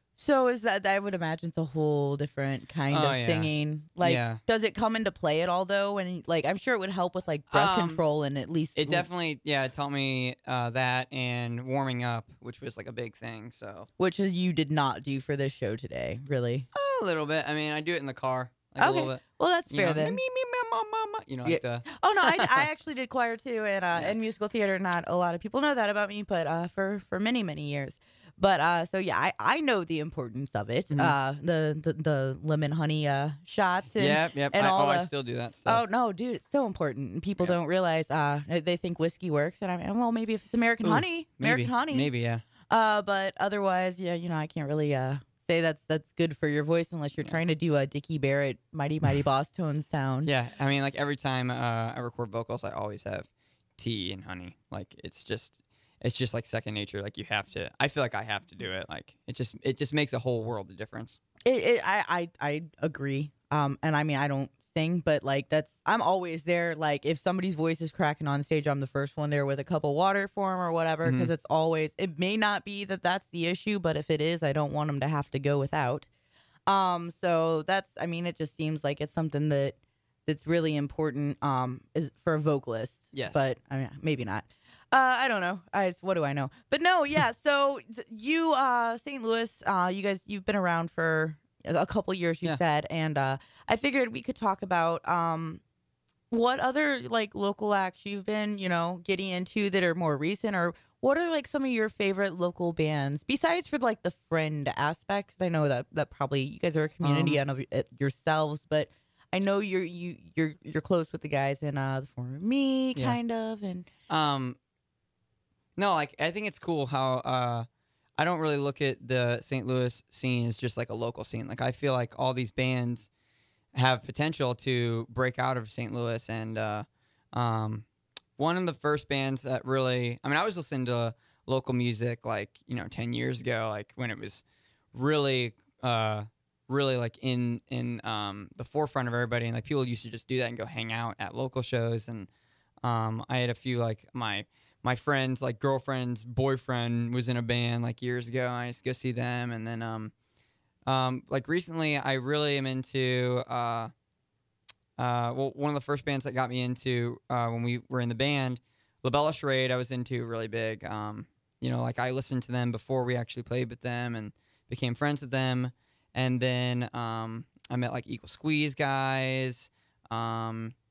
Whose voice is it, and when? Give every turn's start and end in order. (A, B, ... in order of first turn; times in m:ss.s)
0:00.2-0:09.1 A
0:02.9-0:04.4 B
0:07.5-0:08.0 B
0:08.8-0:13.9 B
0:14.0-0:16.7 A
0:16.7-0:22.5 B
0:18.8-0:20.2 A
0:21.4-0:35.1 A
0:30.9-0:31.2 B
0:34.0-0:35.8 B
0:35.7-0:42.1 A
0:40.8-0:42.4 B
0:42.7-0:50.3 A
0:50.2-1:01.2 B
1:01.4-1:16.1 A
1:11.0-1:11.3 B
1:16.7-1:35.6 A
1:23.1-1:23.4 B
1:36.3-1:53.9 A
1:47.0-1:47.4 B
1:54.1-1:54.6 B
1:55.8-1:57.7 B
1:58.2-2:03.1 B
2:03.7-2:07.9 B
2:08.4-2:22.3 B
2:22.8-2:30.1 B
2:30.9-2:33.9 B
2:35.0-2:50.7 B